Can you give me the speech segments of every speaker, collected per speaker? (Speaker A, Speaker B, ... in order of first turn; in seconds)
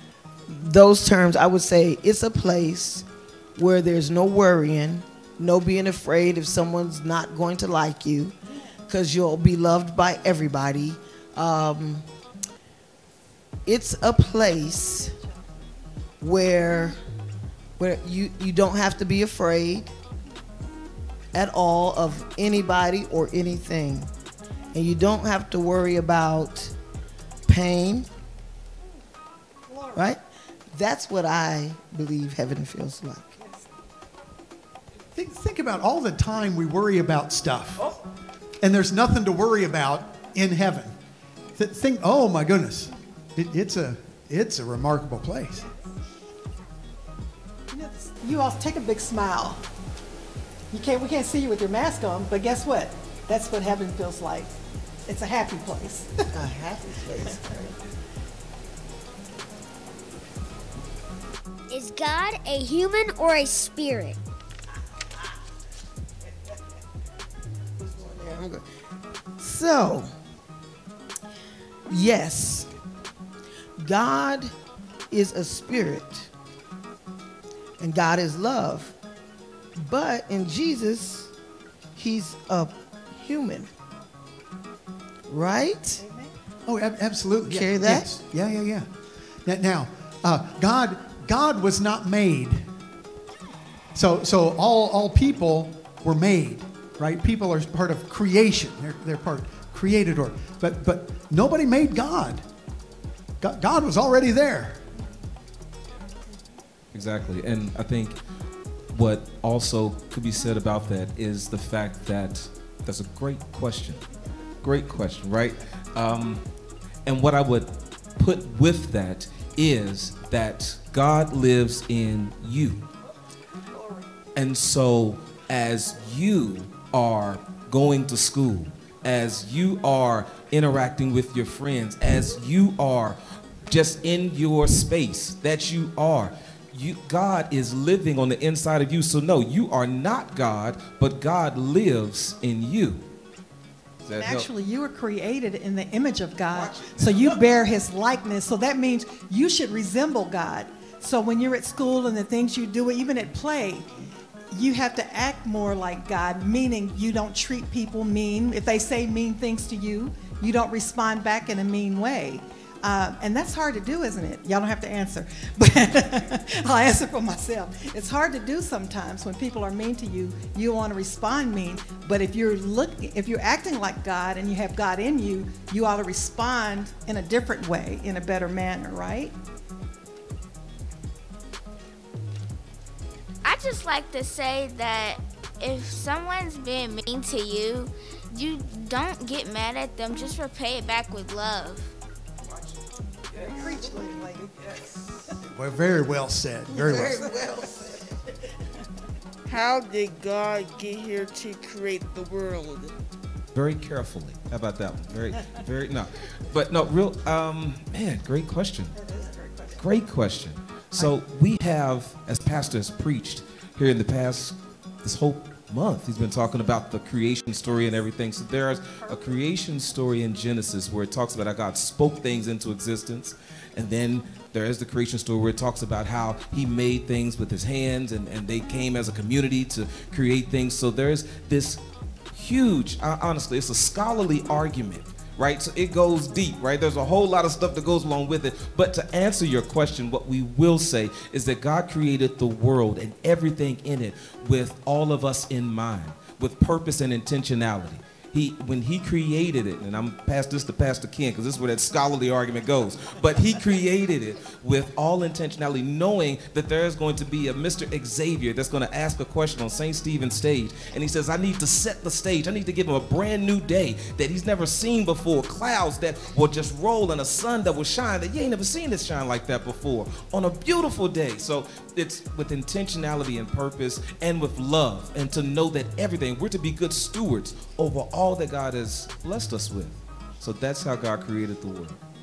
Speaker A: 0.5-8.3, 8.9-12.1, 13.7-15.1, 16.2-17.0, 17.8-19.9, 21.3-24.1, 24.7-26.8, 27.5-28.1, 29.9-30.2, 30.7-33.4, 56.3-57.8, 67.8-68.7, 69.4-70.1, 71.9-72.7, 73.8-74.5, 75.1-76.3, 77.8-78.9, 79.8-81.3, 82.0-83.7, 85.3-86.0, 87.5-88.1
Speaker B: 35.1-37.8, 38.6-40.9, 41.6-45.6, 86.7-88.9, 89.5-92.7, 94.0-102.4, 103.4-104.8, 195.4-197.4
Speaker C: 47.7-49.6, 50.7-54.5, 55.1-56.1, 86.0-86.3, 144.1-153.9, 154.5-179.3, 193.4-194.5, 209.0-209.8
Speaker D: 61.7-64.2
Speaker E: 106.9-108.2, 108.9-114.0, 114.6-116.4, 117.1-122.9, 124.3-143.1, 144.0-144.5, 146.5-147.6, 194.6-195.0, 203.5-208.9, 209.8-231.8, 232.3-282.0
Speaker F: 183.4-191.9
Speaker G: 199.5-202.9